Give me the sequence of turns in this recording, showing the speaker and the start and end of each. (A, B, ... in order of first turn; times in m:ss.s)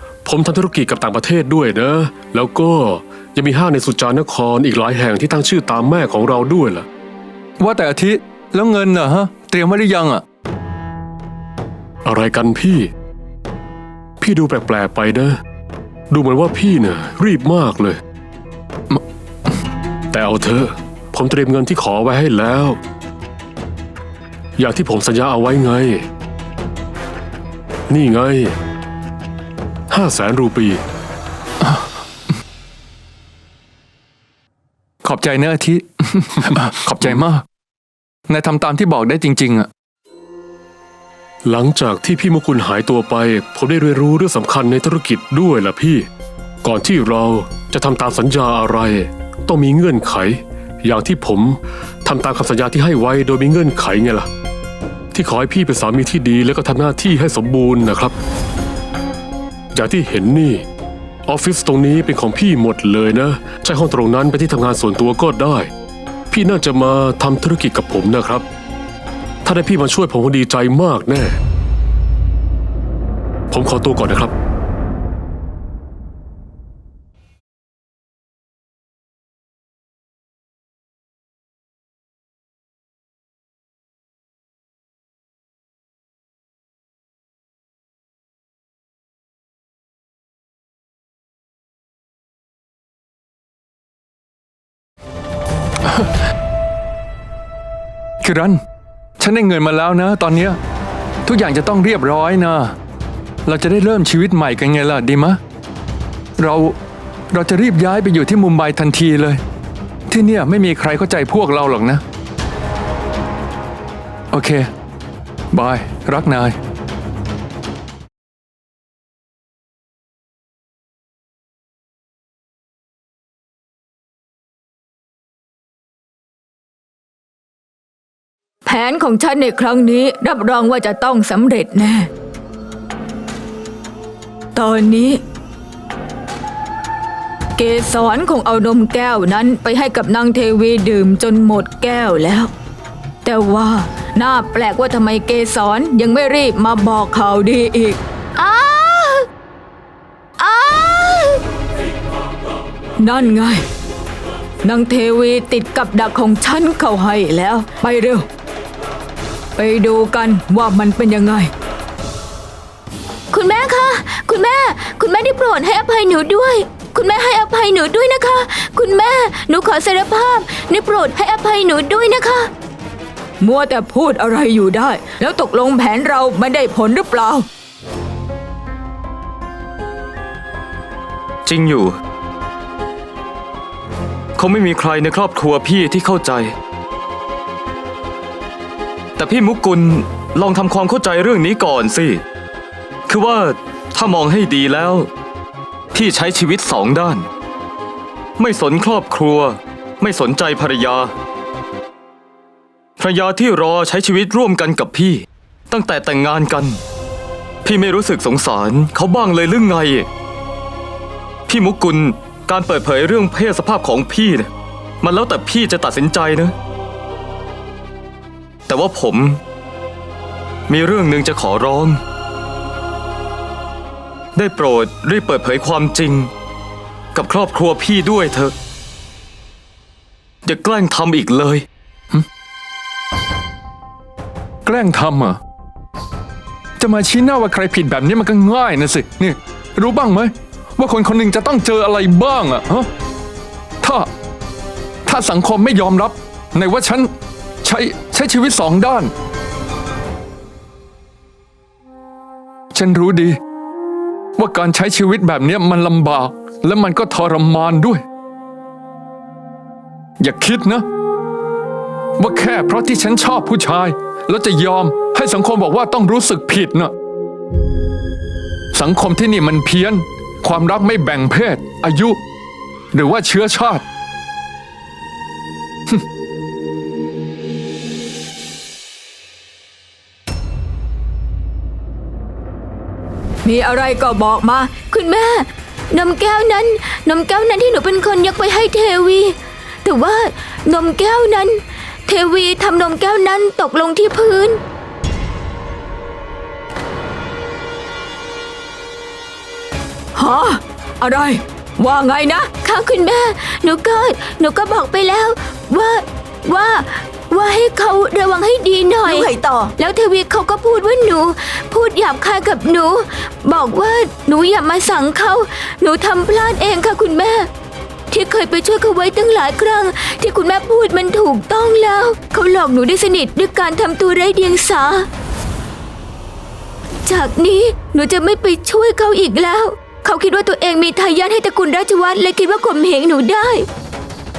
0:00.2-0:06.9 A
0:07.6-0:10.2 B
0:12.0-0:12.9 A
0:14.2-0:15.4 A
0:16.1-0:18.0 A
0:20.1-0:22.8 A
0:24.6-0:26.1 A
0:27.9-0:28.6 A
0:29.9-0:30.8 A
0:35.0-0:37.4 B
0:38.3-0:39.7 B
0:41.4-0:46.1 A
0:46.6-0:54.3 A
0:55.1-0:58.2 A
0:59.7-1:00.6 A
1:01.3-1:05.7 A
1:06.3-1:08.5 A
1:09.4-1:11.4 A
1:13.5-1:14.3 A
1:38.2-1:38.6 B
1:39.2-1:40.6 B
1:41.2-1:42.8 B
1:43.5-1:45.4 B
1:46.4-1:46.8 B
1:47.3-1:49.4 B
1:50.1-1:52.0 B
1:54.3-1:54.7 B
1:55.5-1:56.6 B
2:08.6-2:12.1 C
2:14.6-2:15.2 C
2:17.6-2:22.5 C
2:23.2-2:28.0 C
2:28.4-2:29.2 D
2:30.4-2:31.3 C
2:30.4-2:30.8 D
2:33.0-2:33.7 C
2:34.6-2:38.3 C
2:39.6-2:41.5 C
2:43.3-2:52.5 D
2:53.4-2:57.5 C
3:01.4-3:02.0 E
3:04.4-3:06.6 E
3:09.2-3:12.2 E
3:13.1-3:15.1 E
3:15.9-3:17.3 E
3:18.4-3:21.1 E
3:23.0-3:26.8 E
3:27.6-3:30.1 E
3:31.5-3:34.5 E
3:35.0-3:36.6 E
3:38.7-3:39.4 E
3:40.7-3:42.0 E
3:44.4-3:46.3 E
3:47.1-3:48.6 E
3:50.4-3:51.7 E
3:54.6-3:55.4 B
3:56.8-4:02.9 B
4:03.8-4:04.1 B
4:05.0-4:07.1 B
4:07.6-4:09.1 B
4:12.7-4:13.4 B
4:14.4-4:18.0 B
4:20.2-4:20.9 B
4:22.2-4:26.9 B
4:28.7-4:32.2 B
4:32.9-4:33.8 B
4:43.4-4:44.8 C
4:44.7-4:54.6 D
5:00.2-5:02.6 C
5:02.6-5:17.5 D
5:09.0-5:09.7 C
5:18.1-5:25.1 D
5:27.0-5:33.7 D